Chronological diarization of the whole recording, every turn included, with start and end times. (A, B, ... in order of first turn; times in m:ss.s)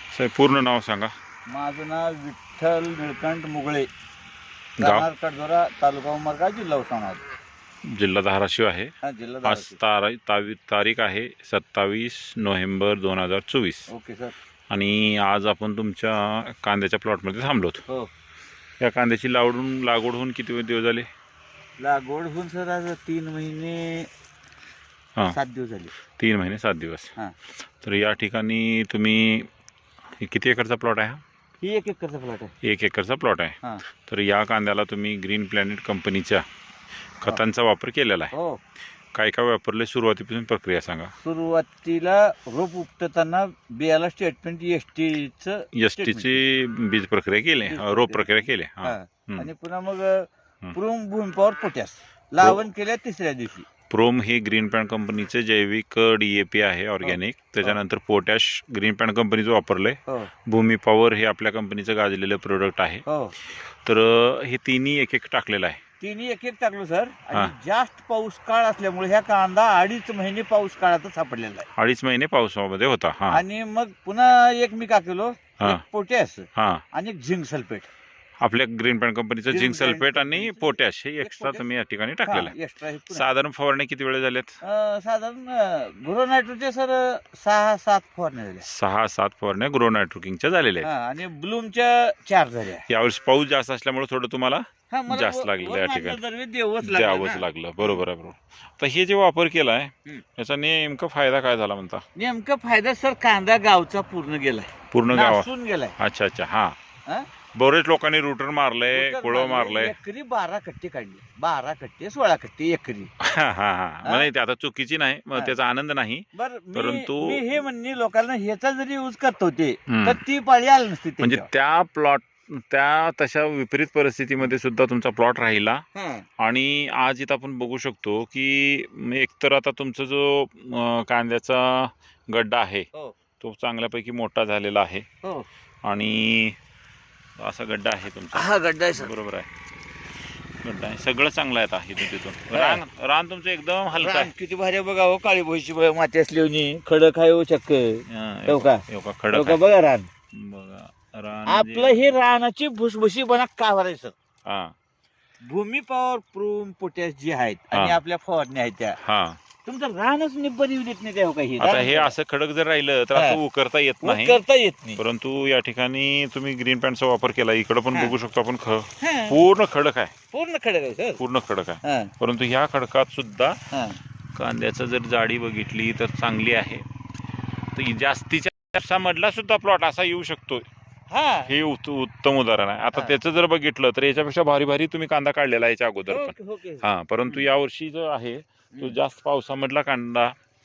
0:00.1-0:01.1 A
0:01.5-0:03.9 B
0:04.8-0:05.1 A
0:04.8-0:07.2 B
0:07.8-0:08.9 A
0:09.0-0:09.8 B
0:09.4-0:13.9 A
0:13.9-0:14.3 B
0:14.7-0:17.8 A
0:18.8-0:21.1 A
0:21.8-0:24.1 B
0:25.3-0:25.9 B
0:26.2-0:27.1 A
0:27.8-0:29.5 A
0:30.2-0:31.2 A
0:31.6-0:32.5 B
0:32.6-0:36.4 A
0:37.2-0:38.3 A
0:38.3-0:38.6 B
0:39.1-0:41.1 A
0:41.2-0:46.4 B
0:45.8-0:49.5 A
0:47.6-0:53.7 B
0:52.4-0:52.6 A
0:53.9-1:05.8 A
0:57.0-0:57.8 B
1:03.1-1:03.3 B
1:06.0-1:11.7 B
1:11.8-1:13.4 A
1:13.3-1:17.9 B
1:16.6-1:16.8 A
1:18.4-1:22.5 A
1:19.5-1:21.7 B
1:22.3-1:23.2 B
1:23.1-1:24.6 A
1:24.6-1:28.7 B
1:28.6-1:30.9 A
1:30.8-1:32.9 B
1:32.9-1:36.2 A
1:34.9-1:38.0 B
1:36.8-1:42.0 A
1:42.2-1:46.0 B
1:44.9-1:46.8 A
1:47.5-1:50.0 A
1:48.9-1:53.1 B
1:53.2-1:57.4 A
1:56.3-2:01.5 B
1:59.9-2:00.2 A
2:01.2-2:05.8 A
2:06.0-2:06.3 B
2:06.4-2:12.9 A
2:13.4-2:15.1 A
2:15.8-2:16.6 A
2:17.4-2:19.5 A
2:18.3-2:19.1 B
2:20.6-2:24.3 A
2:22.5-2:22.8 B
2:23.9-2:30.1 B
2:28.1-2:29.6 A
2:30.3-2:32.1 A
2:31.5-2:34.2 B
2:34.5-2:34.8 A
2:35.4-2:39.0 B
2:39.0-2:39.4 A
2:39.6-2:42.2 B
2:41.6-2:44.4 A
2:43.2-2:43.4 B
2:44.0-2:45.0 B
2:45.0-2:50.1 A
2:49.0-2:49.4 B
2:50.3-2:51.2 B
2:51.2-2:53.6 A
2:51.8-2:52.1 B
2:53.7-2:54.0 B
2:54.3-2:56.8 A
2:57.7-3:00.7 A
3:01.1-3:01.5 B
3:01.4-3:10.4 A
3:06.1-3:07.5 B